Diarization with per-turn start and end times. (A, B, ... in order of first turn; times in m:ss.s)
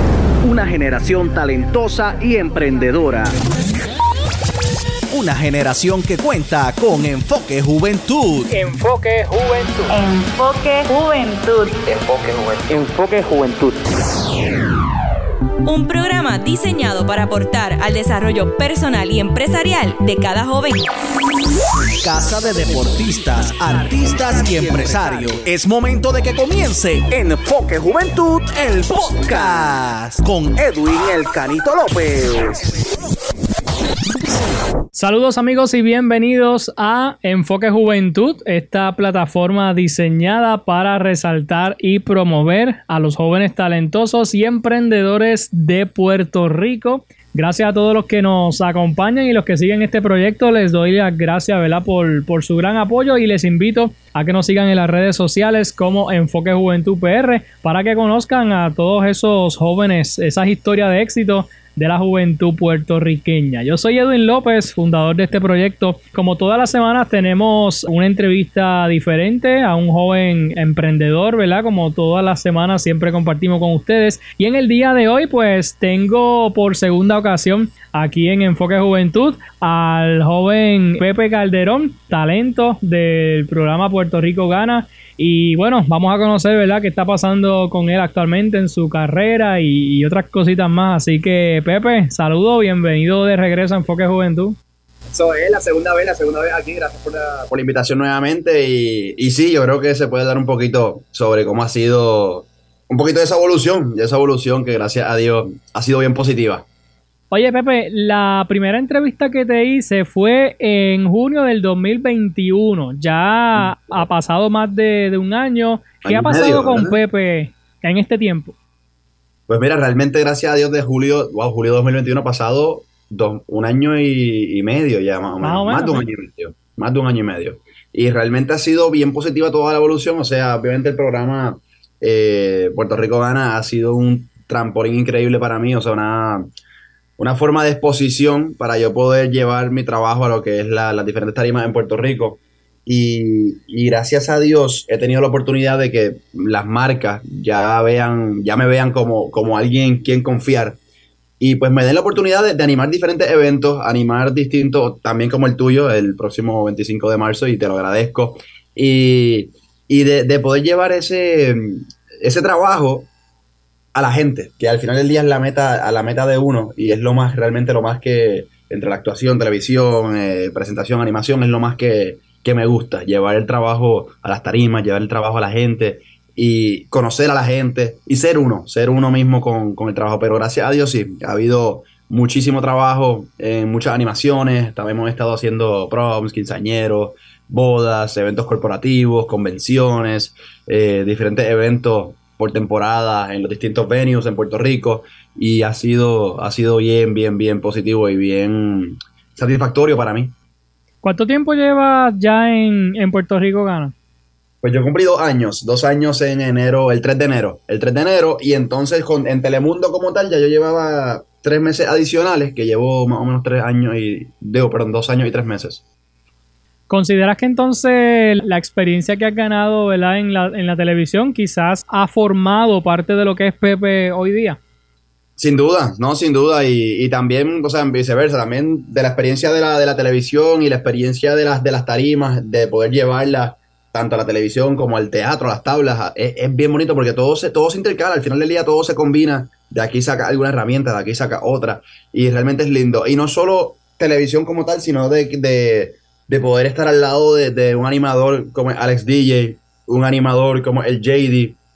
0:00.4-0:03.4 A
0:05.1-0:08.5 A
0:08.5-0:09.9 B
0:09.9-0:11.8 C
0:11.8-0:13.8 D
0:15.6-0:20.9 C
0:22.0-0:32.7 A
0:34.9-1:34.6 B
1:35.1-1:46.6 E
1:47.3-1:58.5 B
1:53.6-1:54.0 E
1:56.0-1:57.0 E
1:59.5-2:16.5 E
2:05.4-2:06.1 B
2:17.2-2:30.8 E
2:31.4-2:43.1 E
2:43.9-3:20.3 E
3:21.0-3:23.9 B
3:24.6-3:35.8 E
3:36.9-3:44.6 B
3:45.4-4:11.6 E